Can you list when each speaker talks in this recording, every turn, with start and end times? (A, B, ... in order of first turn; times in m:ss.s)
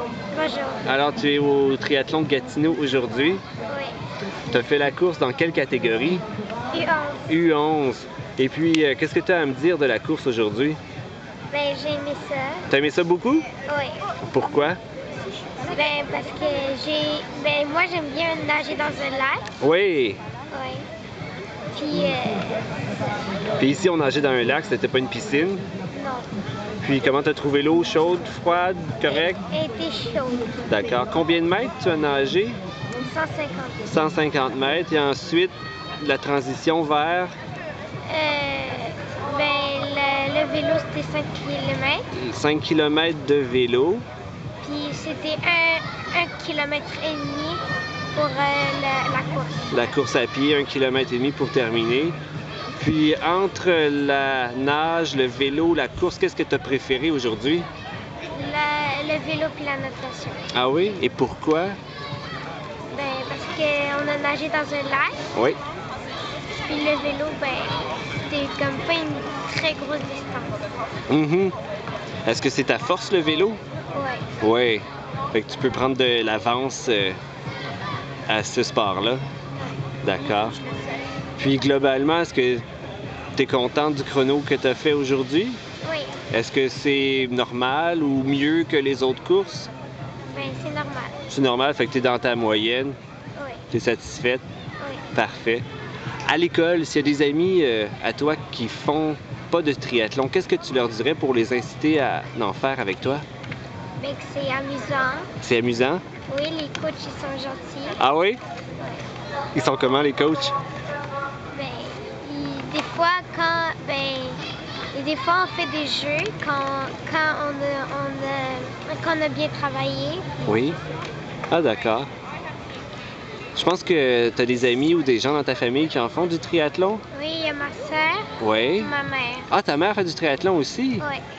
0:00.3-0:00.8 A
0:00.8-0:03.4 B
0:03.7-0:04.0 A
0:04.5-0:06.2 B
0:06.7-0:07.3 A
0:07.3-0:10.8 B
0:11.5-0:12.7 A
0:12.7-0:13.5 B
0:13.6-0:14.0 A
0:14.3-0:14.8 B
0:15.6-0:19.5 A
0:19.6-0:20.2 B
0:20.5-0:20.8 A
0:21.7-0:22.7 A
0:23.6-0:25.6 B
0:25.9-0:26.3 A
0:26.8-0:29.4 B
0:29.1-0:30.5 A
0:30.6-0:32.6 B
0:33.0-0:33.8 A
0:33.8-0:37.3 B
0:38.1-0:42.0 A
0:42.1-0:44.0 B
0:44.6-0:47.6 A
0:48.1-0:49.7 A
0:49.7-0:52.2 B
0:52.8-0:57.6 B
0:58.3-1:00.4 A
1:00.5-1:01.8 B
1:02.9-1:05.2 A
1:06.6-1:10.6 A
1:11.1-1:11.5 B
1:12.2-1:13.6 B
1:13.9-1:14.2 A
1:14.4-1:17.2 B
1:18.3-1:19.2 B
1:20.0-1:20.6 B
1:21.4-1:22.6 B
1:23.4-1:25.6 B
1:25.8-1:26.2 A
1:26.3-1:29.7 B
1:30.3-1:31.1 A
1:31.3-1:33.0 B
1:33.4-1:33.6 A
1:33.7-1:34.4 B
1:34.8-1:35.1 A
1:35.1-1:35.6 B
1:36.3-1:43.2 B
1:44.0-1:45.3 A
1:45.4-1:46.0 B
1:46.3-1:48.0 A
1:48.0-1:48.4 B
1:49.5-1:50.5 B
1:51.5-1:54.4 A
1:54.9-2:00.4 A
2:00.4-2:00.8 B
2:01.5-2:02.1 B
2:03.5-2:07.0 B
2:07.1-2:09.5 A
2:08.4-2:08.9 B
2:09.5-2:11.0 B